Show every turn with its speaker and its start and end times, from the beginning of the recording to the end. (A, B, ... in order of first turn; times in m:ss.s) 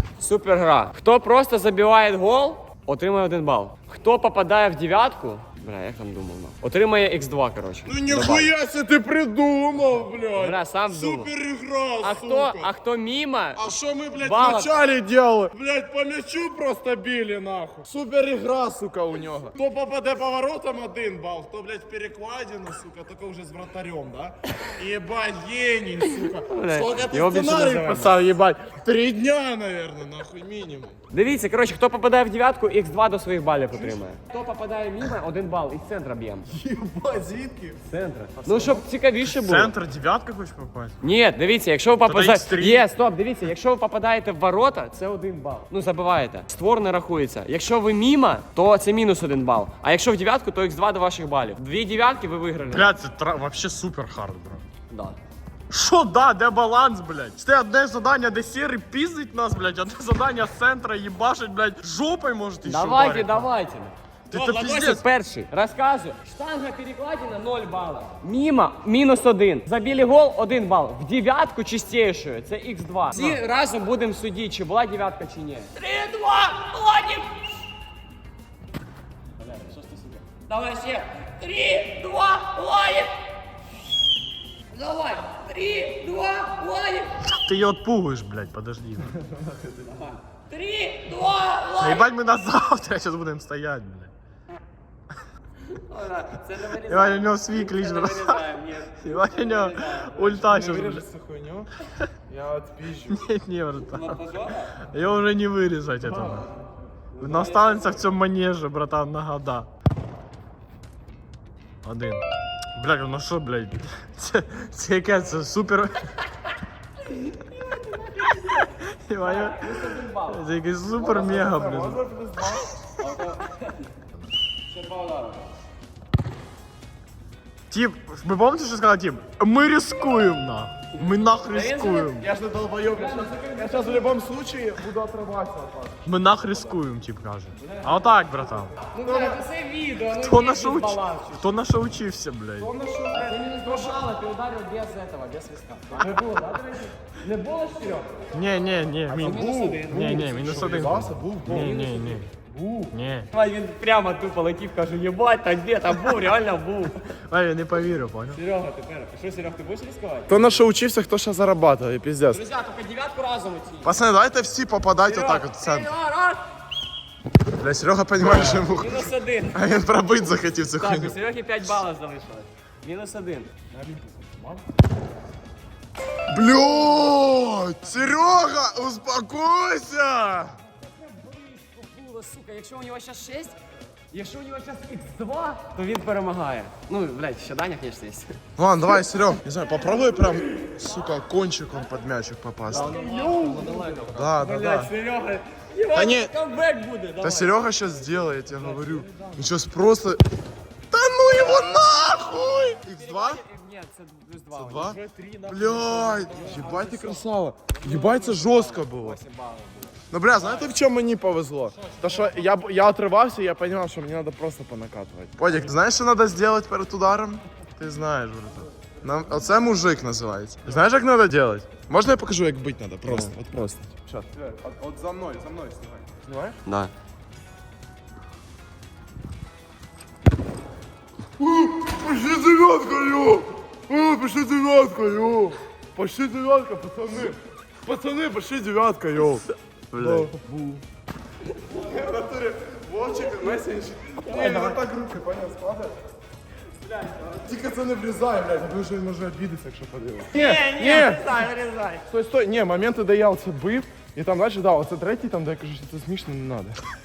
0:00.2-0:08.5 A
0:07.8-0:12.7 B
0:10.4-0:11.3 A
0:12.0-0:13.6 A
0:13.6-0:31.0 B
0:14.2-0:14.7 A
0:26.4-0:28.2 A
0:31.1-0:36.5 A
0:33.7-0:34.0 B
0:36.5-0:37.8 B
0:37.9-0:39.7 A
0:38.4-0:38.9 B
0:39.2-0:41.0 C
0:41.0-0:53.0 A
0:42.0-0:42.9 C
0:52.7-0:54.6 C
0:54.9-0:55.2 A
0:55.7-1:03.5 C
1:02.6-1:17.3 A
1:04.3-1:05.0 C
1:19.4-1:20.2 C
1:20.5-1:23.2 A
1:24.7-1:27.2 A
1:27.3-1:29.1 C
1:29.2-1:29.9 B
1:29.9-1:32.1 A
1:31.8-1:34.1 C
1:35.7-1:40.4 A
1:36.9-1:38.4 C
1:39.0-1:41.0 C
1:40.4-1:41.7 B
1:42.3-1:43.3 B
1:43.1-1:44.2 C
1:43.9-1:44.8 A
1:44.8-1:46.5 C
1:47.1-1:48.0 A
1:47.2-1:49.7 C
1:51.8-1:52.2 C
1:52.8-1:56.1 C
1:59.1-2:02.0 C
1:59.2-2:00.5 A
2:01.0-2:02.7 B
2:03.0-2:03.9 A
2:04.8-2:05.4 A
2:07.7-2:12.3 C
2:11.0-2:12.2 A
2:12.2-2:16.8 B
2:12.9-2:14.1 A
2:16.0-2:18.8 C
2:17.6-2:21.5 A
2:19.0-2:19.4 B
2:20.1-2:22.7 C
2:22.6-2:24.1 B
2:23.1-2:28.3 A
2:26.0-2:26.4 B
2:28.3-2:32.3 C
2:29.1-2:30.6 A
2:29.1-2:32.9 B
2:32.9-2:33.3 C
2:33.3-2:37.0 A
2:37.3-2:38.4 C
2:38.3-2:40.3 A
2:40.3-2:42.4 B
2:42.3-2:44.0 A
2:43.8-2:45.9 B
2:45.0-2:46.4 A
2:47.5-2:51.2 B
2:48.6-2:49.6 A
2:50.8-2:53.5 A
2:53.7-2:54.6 C
2:56.3-3:00.6 B
3:00.8-3:03.6 A
3:04.1-3:08.4 A
3:08.6-3:13.0 B
3:12.7-3:14.2 C
3:12.7-3:17.6 A
3:13.7-3:14.9 B
3:15.9-3:16.3 C
3:17.2-3:20.2 B
3:18.3-3:19.4 C
3:20.9-3:23.4 B
3:22.8-3:25.0 A
3:24.5-3:29.2 B
3:24.8-3:26.6 C
3:26.1-3:30.7 A
3:30.1-3:46.6 B
3:31.8-3:32.3 C
3:46.6-3:46.9 A
3:51.4-4:00.8 B
3:59.9-4:00.3 C
4:01.7-4:05.9 B
4:04.3-4:04.7 A
4:06.9-4:07.4 C
4:07.4-4:11.4 B
4:10.3-4:12.1 A
4:12.1-4:16.8 B